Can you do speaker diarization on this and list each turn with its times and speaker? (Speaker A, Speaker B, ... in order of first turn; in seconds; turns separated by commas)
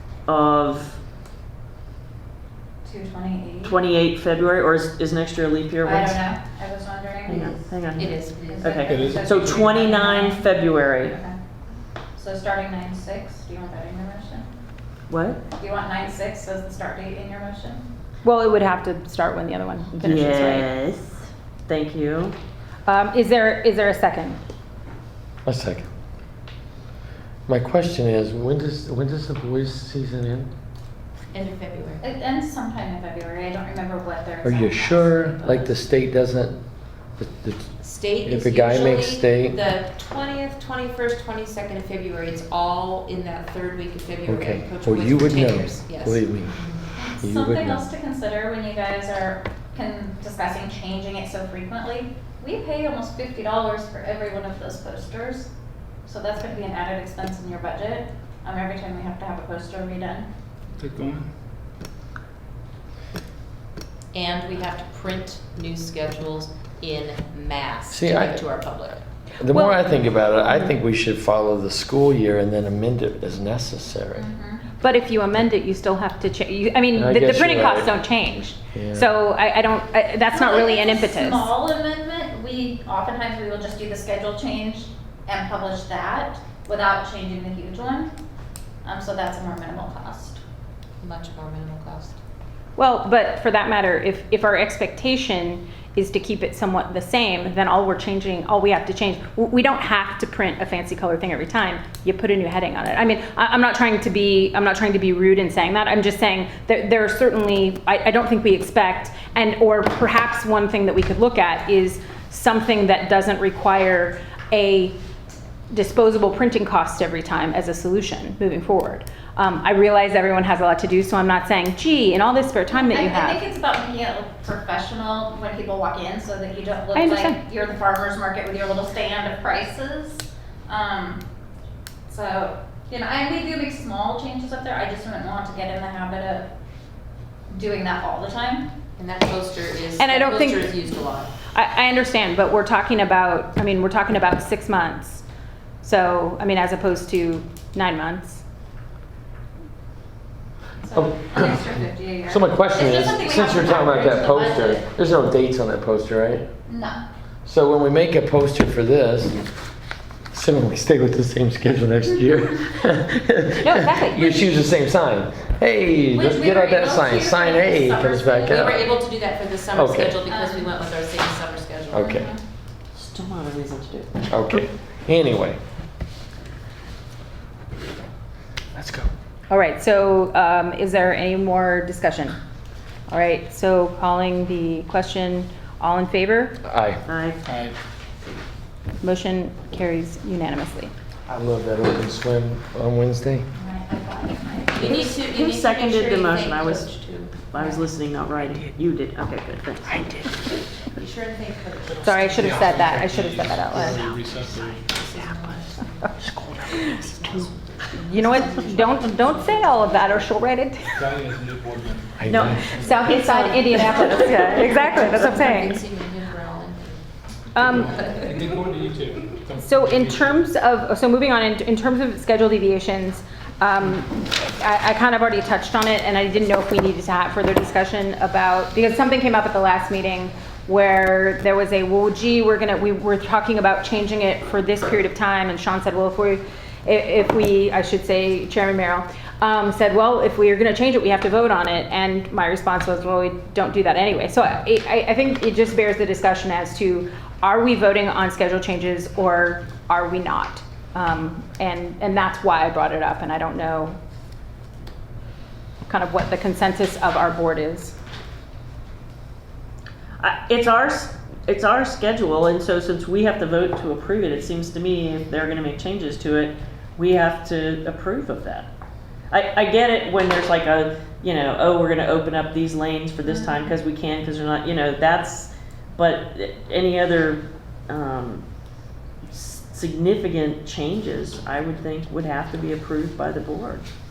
Speaker A: 0.3-1.0, Speaker B: 2.8-3.8, Speaker A: 3.6-6.2, Speaker B: 5.8-7.5, Speaker A: 7.2-11.2, Speaker C: 7.3-10.3, Speaker B: 8.5-10.5, Speaker D: 8.8-9.8, Speaker B: 11.0-11.3, Speaker B: 12.2-14.5, Speaker A: 15.1-15.4, Speaker B: 15.6-17.9, Speaker E: 18.2-20.7, Speaker A: 19.9-22.4, Speaker E: 22.9-24.4, Speaker F: 25.4-25.9, Speaker F: 27.5-30.5, Speaker C: 31.3-32.0, Speaker B: 32.0-35.7, Speaker F: 34.4-36.6, Speaker F: 37.2-37.7, Speaker C: 37.8-46.8, Speaker F: 38.2-39.6, Speaker F: 44.3-46.6, Speaker B: 47.0-55.5, Speaker F: 47.2-47.8, Speaker B: 56.0-60.3, Speaker D: 60.8-61.3, Speaker C: 64.1-69.0, Speaker F: 67.9-68.4, Speaker F: 69.4-74.2, Speaker E: 69.5-70.0, Speaker B: 74.2-74.6, Speaker E: 74.8-81.5, Speaker F: 76.9-77.9, Speaker F: 78.7-79.1, Speaker B: 80.3-88.1, Speaker B: 88.8-90.4, Speaker C: 91.0-92.2, Speaker E: 92.8-115.0, Speaker E: 115.7-123.4, Speaker B: 122.7-131.2, Speaker E: 126.9-127.4, Speaker B: 132.1-136.5, Speaker B: 137.5-138.7, Speaker C: 139.0-141.3, Speaker E: 139.9-140.8, Speaker E: 141.5-145.2, Speaker E: 145.8-148.4, Speaker B: 150.8-154.9, Speaker F: 150.9-151.6, Speaker F: 152.3-156.5, Speaker B: 156.7-157.0, Speaker F: 157.4-159.4, Speaker F: 160.3-168.9, Speaker E: 163.6-164.6, Speaker B: 166.1-168.8, Speaker C: 168.5-172.1, Speaker F: 169.7-170.2, Speaker B: 170.2-170.7, Speaker F: 171.9-172.3, Speaker B: 171.9-172.4, Speaker A: 172.9-174.2, Speaker F: 174.3-175.6, Speaker F: 178.7-179.1, Speaker E: 179.5-182.4, Speaker E: 183.1-186.6, Speaker F: 186.6-187.0, Speaker A: 187.1-187.4, Speaker D: 187.4-187.8, Speaker E: 189.0-190.9, Speaker F: 191.3-193.5, Speaker B: 193.5-194.9, Speaker C: 194.6-197.8, Speaker A: 194.8-200.3, Speaker C: 200.9-203.0, Speaker D: 201.9-204.9, Speaker E: 202.0-204.0, Speaker C: 203.7-210.1, Speaker D: 206.2-207.0, Speaker E: 208.0-210.9, Speaker D: 210.9-213.2, Speaker F: 212.2-212.6, Speaker A: 212.3-214.8, Speaker E: 212.7-215.8, Speaker C: 213.9-217.0, Speaker E: 217.5-218.1, Speaker D: 217.6-220.4, Speaker C: 218.0-218.3, Speaker E: 219.6-254.0, Speaker E: 255.8-257.9, Speaker A: 260.2-268.7, Speaker A: 269.3-278.4, Speaker B: 273.2-273.6, Speaker A: 279.3-283.9